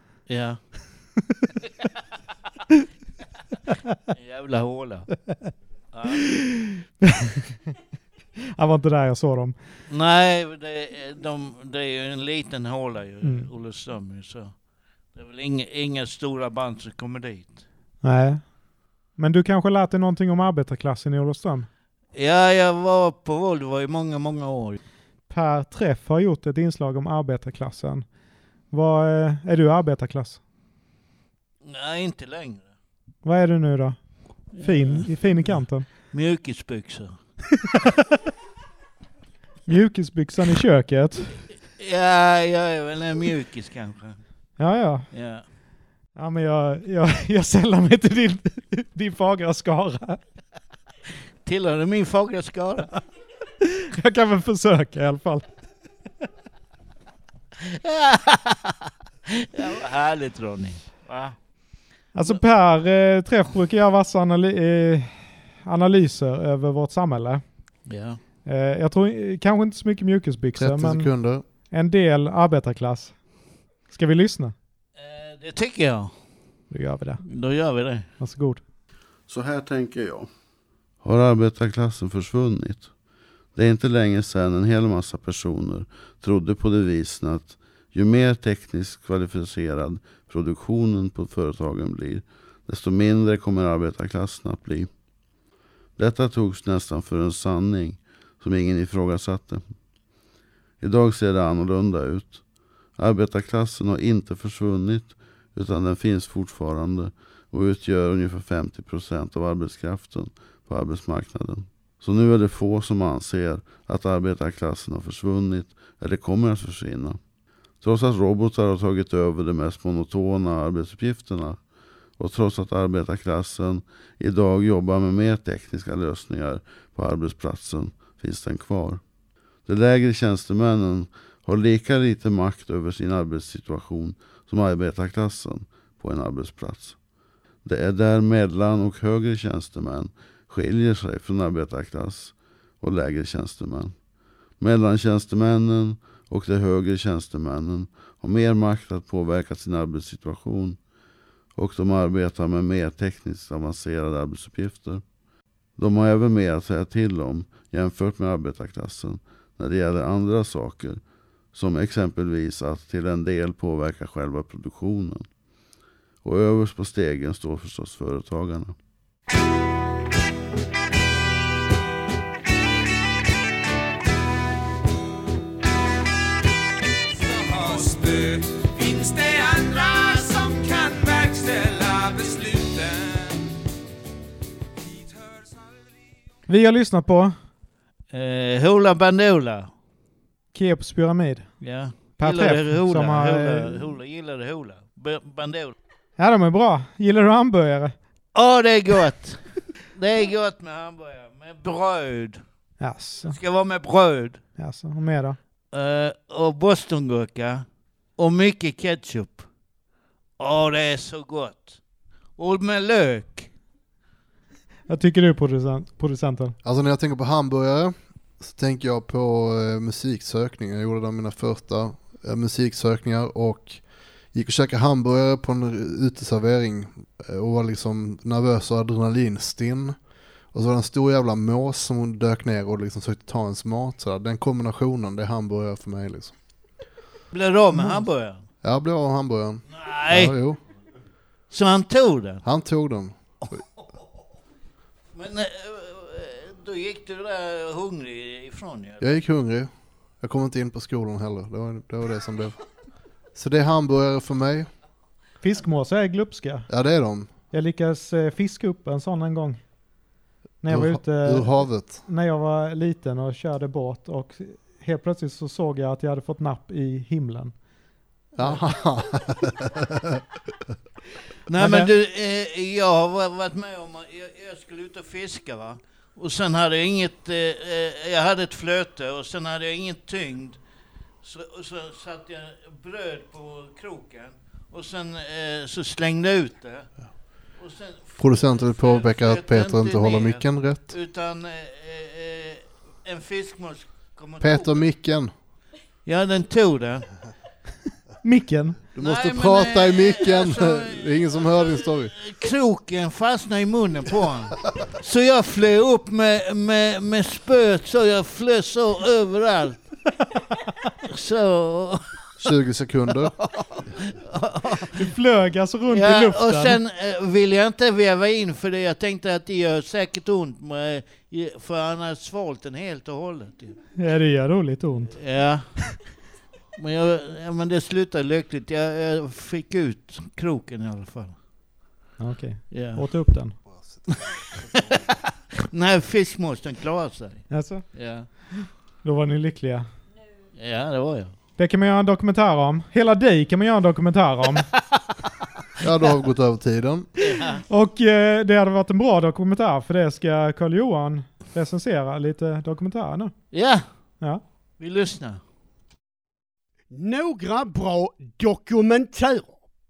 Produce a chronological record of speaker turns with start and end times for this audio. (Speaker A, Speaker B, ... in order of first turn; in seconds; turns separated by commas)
Speaker A: 0.3-0.6, Speaker A: 4.1-5.1, Speaker A: 5.9-6.3, Speaker B: 6.1-7.3, Speaker B: 8.6-9.6, Speaker A: 9.9-14.5, Speaker B: 13.2-13.5, Speaker A: 15.1-17.6, Speaker B: 18.0-18.4, Speaker B: 19.2-21.7, Speaker A: 22.1-24.8, Speaker B: 25.3-28.0, Speaker B: 28.7-30.4, Speaker A: 31.6-32.7, Speaker B: 33.2-34.0, Speaker B: 34.5-35.9, Speaker A: 34.5-37.1, Speaker B: 39.7-41.4, Speaker A: 41.8-44.2, Speaker B: 44.6-45.1, Speaker A: 45.1-45.4, Speaker B: 46.1-50.2, Speaker A: 51.4-52.9, Speaker B: 53.6-55.5, Speaker A: 57.6-58.8, Speaker A: 59.4-61.3, Speaker B: 62.1-67.4, Speaker A: 67.9-68.2, Speaker B: 68.5-71.1, Speaker C: 70.5-71.4, Speaker B: 71.7-73.2, Speaker B: 73.9-74.5, Speaker A: 75.0-76.1, Speaker B: 76.7-77.2, Speaker A: 77.2-78.1, Speaker B: 78.2-78.6, Speaker D: 79.3-80.3, Speaker D: 81.0-82.9, Speaker D: 83.5-94.9, Speaker D: 96.0-99.7, Speaker D: 100.8-102.4, Speaker D: 103.0-117.2, Speaker D: 117.8-121.6, Speaker D: 122.2-129.0, Speaker D: 129.7-137.0, Speaker D: 137.6-143.9, Speaker D: 144.6-150.8, Speaker D: 151.6-155.0, Speaker D: 155.8-161.0, Speaker D: 161.5-165.2, Speaker D: 166.2-168.7, Speaker E: 177.1-183.5, Speaker B: 186.5-187.3, Speaker A: 188.1-189.7, Speaker B: 190.5-191.6, Speaker A: 191.6-195.7, Speaker B: 192.2-193.8, Speaker B: 196.2-197.9, Speaker A: 198.3-199.4, Speaker A: 199.9-202.4, Speaker B: 202.8-203.4, Speaker A: 203.3-204.4, Speaker B: 204.6-205.4, Speaker A: 205.7-207.6, Speaker A: 208.2-209.4, Speaker A: 210.4-211.8, Speaker A: 212.4-213.5, Speaker B: 214.9-216.5, Speaker C: 216.6-223.8, Speaker C: 224.3-229.9, Speaker C: 230.5-236.3, Speaker A: 237.3-238.4, Speaker C: 238.6-240.6, Speaker A: 239.7-240.3, Speaker A: 241.5-242.4, Speaker C: 242.4-243.6, Speaker A: 245.1-249.1, Speaker C: 249.0-252.6, Speaker C: 253.3-254.7, Speaker B: 255.4-256.7, Speaker C: 256.7-257.3, Speaker B: 257.5-259.6, Speaker B: 260.6-267.5, Speaker C: 260.7-262.0, Speaker C: 268.4-270.2, Speaker A: 271.5-280.6, Speaker B: 271.6-271.9, Speaker A: 281.2-286.9, Speaker A: 287.6-294.8, Speaker C: 288.2-290.9, Speaker C: 294.4-295.3, Speaker A: 296.1-297.1, Speaker B: 298.2-298.8, Speaker C: 298.9-302.1, Speaker A: 299.0-309.9, Speaker A: 311.1-312.0, Speaker C: 312.4-313.3, Speaker A: 314.3-314.9, Speaker B: 314.9-316.8, Speaker A: 315.9-323.8, Speaker B: 324.0-325.1, Speaker A: 325.1-325.7, Speaker A: 326.8-331.3, Speaker B: 332.2-333.6, Speaker A: 332.7-333.0, Speaker C: 333.7-334.2, Speaker A: 334.7-335.1, Speaker A: 335.7-338.3, Speaker B: 337.5-337.9, Speaker B: 338.6-339.9, Speaker A: 340.6-341.3, Speaker B: 341.6-344.7, Speaker C: 345.8-347.1, Speaker A: 347.2-347.6, Speaker B: 347.7-353.3, Speaker A: 353.5-353.8, Speaker A: 354.8-355.4, Speaker F: 356.9-359.6